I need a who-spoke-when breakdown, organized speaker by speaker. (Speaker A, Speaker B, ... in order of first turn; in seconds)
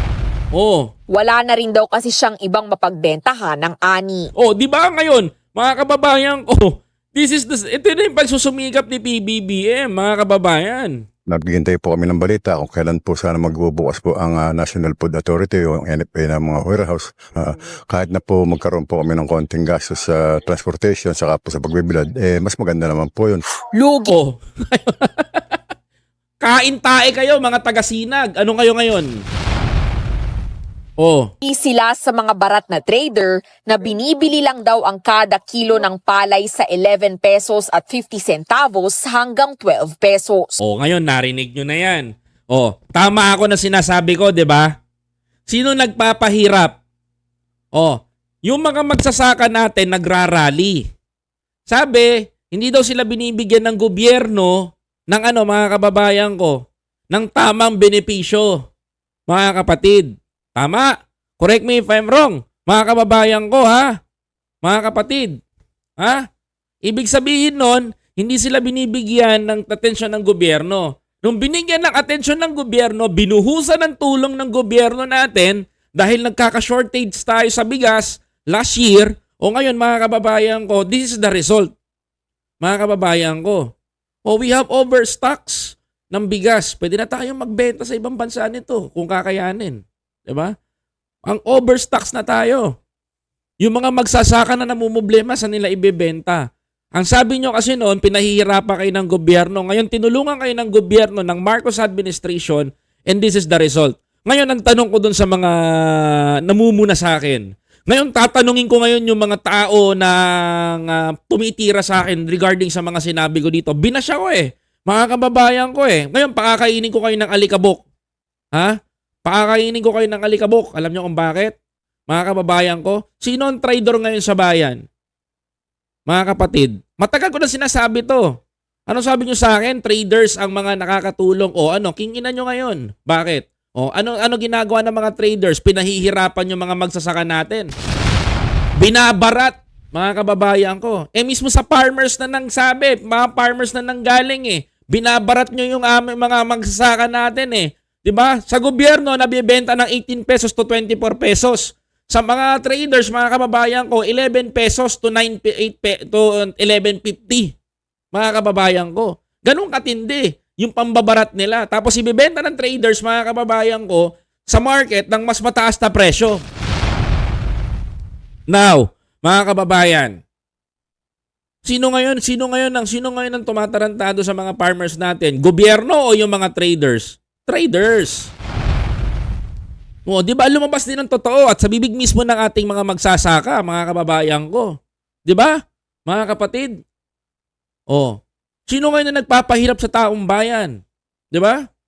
Speaker A: 0.5-0.9, 4.4-11.0, 24.1-25.6, 26.4-29.1, 31.0-31.3, 40.6-44.7, 45.5-46.8, 47.8-50.8, 51.7-58.6, 59.3-64.0, 64.6-65.4, 66.0-66.2, 66.8-81.7, 82.6-83.7, 84.3-90.5, 91.3-92.7, 93.6-96.4, 97.0-117.8, 118.5-121.6, 122.1-124.8, 126.1-128.3, 128.9-137.7, 138.8-157.5, 158.1-166.4, 168.5-170.2, 171.7-178.3, 180.1-184.7, 185.3-185.5, 186.1-186.8, 187.9-188.2, 188.7-190.8, 191.3-191.6
Speaker B: 1.1-4.3, 23.7-24.1, 31.4-40.6
Speaker C: 11.3-23.4